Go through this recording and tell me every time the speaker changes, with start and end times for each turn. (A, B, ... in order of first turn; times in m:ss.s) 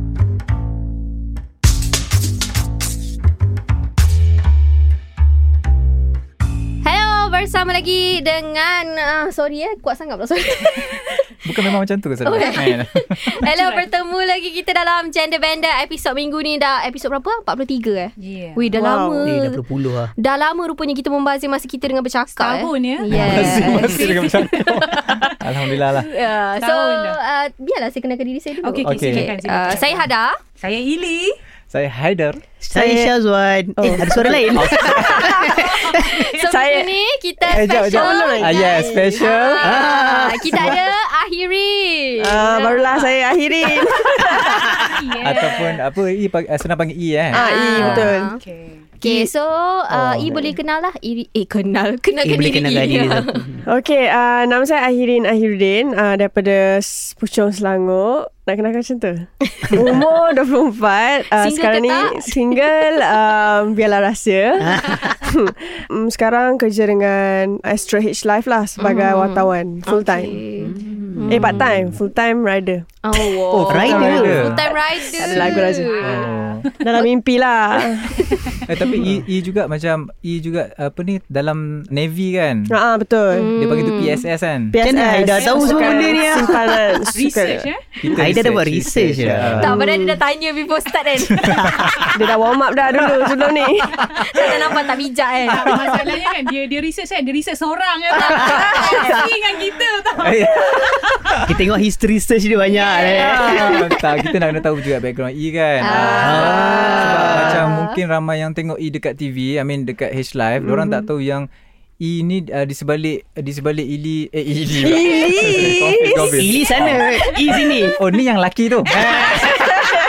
0:06.8-0:11.4 A
0:11.4-0:13.4 B
0:12.2-0:19.6 A
0:13.5-0:13.9 C
0:18.2-0:18.7 C
0:18.7-0:19.3 D
0:19.2-0:20.1 E
0:20.2-0:25.3 A
0:22.4-0:25.4 C
0:23.1-0:26.1 B
0:23.1-0:23.6 E
0:26.0-0:30.4 A
0:26.6-0:27.2 C
0:28.6-0:30.1 C
0:28.8-0:29.3 B
0:30.6-0:31.4 C
0:31.7-0:32.4 B
0:32.6-0:35.1 E
0:32.7-0:33.1 D
0:33.8-0:35.6 D
0:34.5-0:35.3 B
0:34.7-0:43.1 A
0:35.5-0:36.6 C
0:36.5-0:36.9 D
0:37.5-0:39.8 B
0:37.5-0:39.6 D
0:39.6-0:40.7 E
0:40.5-0:40.8 B
0:42.2-0:44.9 D
0:43.8-0:44.9 A
0:44.7-0:45.8 C
0:45.2-0:48.1 B
0:47.3-0:48.3 D
0:47.3-0:48.4 A
0:48.4-0:48.8 C
0:49.0-0:49.3 D
0:49.0-0:53.4 A
0:49.9-0:50.5 B
0:52.2-0:53.6 E
0:53.6-1:10.4 D
0:59.5-0:59.8 A
1:01.3-1:03.1 A
1:04.6-1:05.3 E
1:08.8-1:11.6 A
1:10.6-1:11.4 E
1:11.3-1:13.3 D
1:11.4-1:12.0 B
1:13.0-1:16.1 A
1:13.5-1:16.7 B
1:13.7-1:14.6 E
1:13.9-1:14.2 D
1:15.0-1:16.1 D
1:15.8-1:16.7 C
1:16.7-1:18.9 D
1:18.2-1:18.6 C
1:18.6-1:22.7 B
1:22.7-1:23.5 D
1:23.3-1:24.2 A
1:23.6-1:24.8 B
1:24.7-1:27.7 D
1:24.8-1:26.7 E
1:25.3-1:27.8 C
1:28.0-1:29.8 B
1:28.1-1:29.7 E
1:29.6-1:32.1 A
1:29.6-1:30.2 D
1:31.3-1:32.1 B
1:31.4-1:32.0 C
1:32.1-1:34.1 D
1:34.0-1:36.0 A
1:34.3-1:34.7 B
1:35.4-1:41.4 C
1:35.6-1:36.0 B
1:38.2-1:39.3 A
1:40.2-1:41.6 B
1:41.4-1:43.8 E
1:42.8-1:44.6 C
1:43.0-1:51.5 B
1:45.8-1:48.0 A
1:45.9-1:47.7 E
1:50.6-1:51.0 D
1:52.0-1:59.9 B
1:54.8-1:56.4 D
1:56.3-1:58.0 E
1:58.9-1:59.8 C